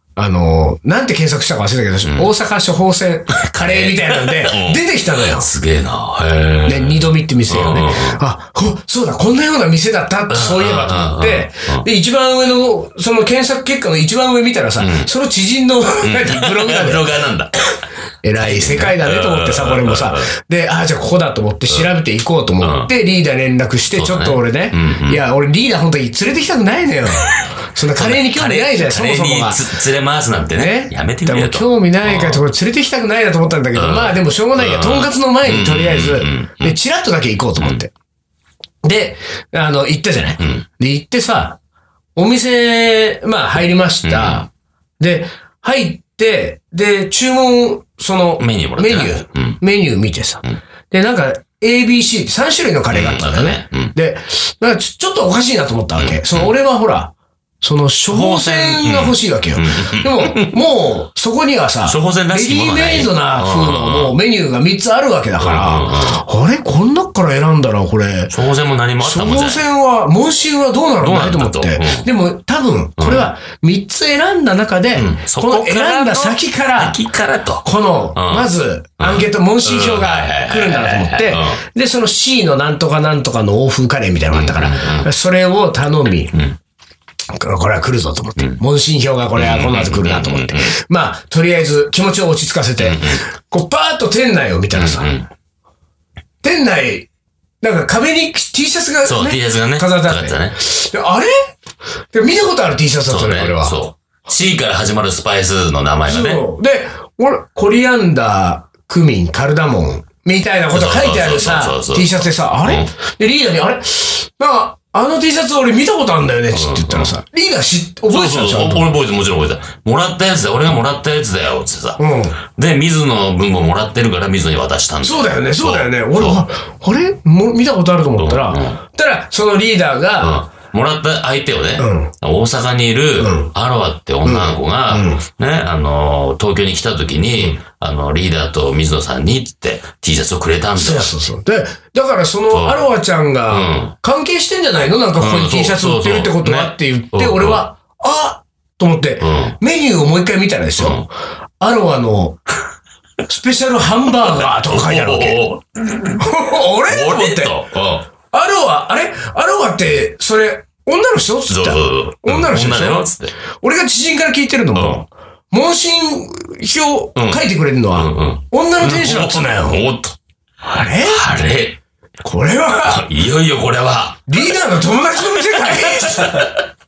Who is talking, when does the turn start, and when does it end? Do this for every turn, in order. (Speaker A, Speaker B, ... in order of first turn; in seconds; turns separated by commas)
Speaker A: 0.1-5.5, Speaker B: 2.0-2.3, Speaker B: 3.3-8.2, Speaker A: 6.7-17.1, Speaker B: 10.3-11.8, Speaker B: 14.8-15.1, Speaker B: 16.0-17.5, Speaker A: 18.2-29.6, Speaker B: 18.4-20.3, Speaker B: 22.6-22.9, Speaker B: 23.9-25.2, Speaker B: 27.9-32.4, Speaker A: 30.5-37.9, Speaker B: 33.7-36.8, Speaker A: 38.8-41.6, Speaker B: 40.4-40.6, Speaker A: 42.1-44.5, Speaker B: 44.0-44.5, Speaker A: 45.0-68.3, Speaker B: 48.4-49.6, Speaker B: 52.9-53.9, Speaker B: 56.0-56.5, Speaker B: 58.1-60.5, Speaker B: 61.9-64.2, Speaker B: 65.4-66.2, Speaker B: 68.3-69.6, Speaker A: 69.0-77.0, Speaker B: 71.0-72.0, Speaker B: 73.0-73.3, Speaker B: 74.9-81.6, Speaker A: 77.6-86.3, Speaker B: 84.3-85.1, Speaker A: 87.3-95.1, Speaker B: 89.3-90.7, Speaker B: 92.8-93.2, Speaker B: 94.7-95.3, Speaker A: 96.4-97.1, Speaker A: 97.6-101.5, Speaker B: 99.0-100.6, Speaker A: 102.1-103.8, Speaker B: 103.1-106.4, Speaker A: 106.0-118.9, Speaker B: 110.7-112.9, Speaker B: 116.5-117.1, Speaker B: 118.1-126.4, Speaker A: 122.0-122.4, Speaker A: 125.0-130.4, Speaker B: 128.2-128.8, Speaker B: 130.2-141.1, Speaker A: 131.8-132.1, Speaker A: 133.2-133.5, Speaker A: 134.2-135.2, Speaker A: 140.8-151.1, Speaker B: 142.5-142.9, Speaker B: 143.5-143.9, Speaker B: 145.2-147.6, Speaker B: 149.2-149.6, Speaker B: 150.8-151.1, Speaker A: 151.6-152.4, Speaker A: 153.2-155.4, Speaker B: 154.2-156.2, Speaker A: 156.2-157.6, Speaker B: 156.9-158.1, Speaker A: 158.3-163.1, Speaker B: 161.5-163.3, Speaker A: 163.6-169.8, Speaker B: 164.8-165.0, Speaker B: 167.2-170.2, Speaker A: 170.6-171.3, Speaker B: 171.0-171.8, Speaker A: 172.2-173.1, Speaker B: 172.9-174.4, Speaker A: 174.3-176.5, Speaker B: 175.7-176.6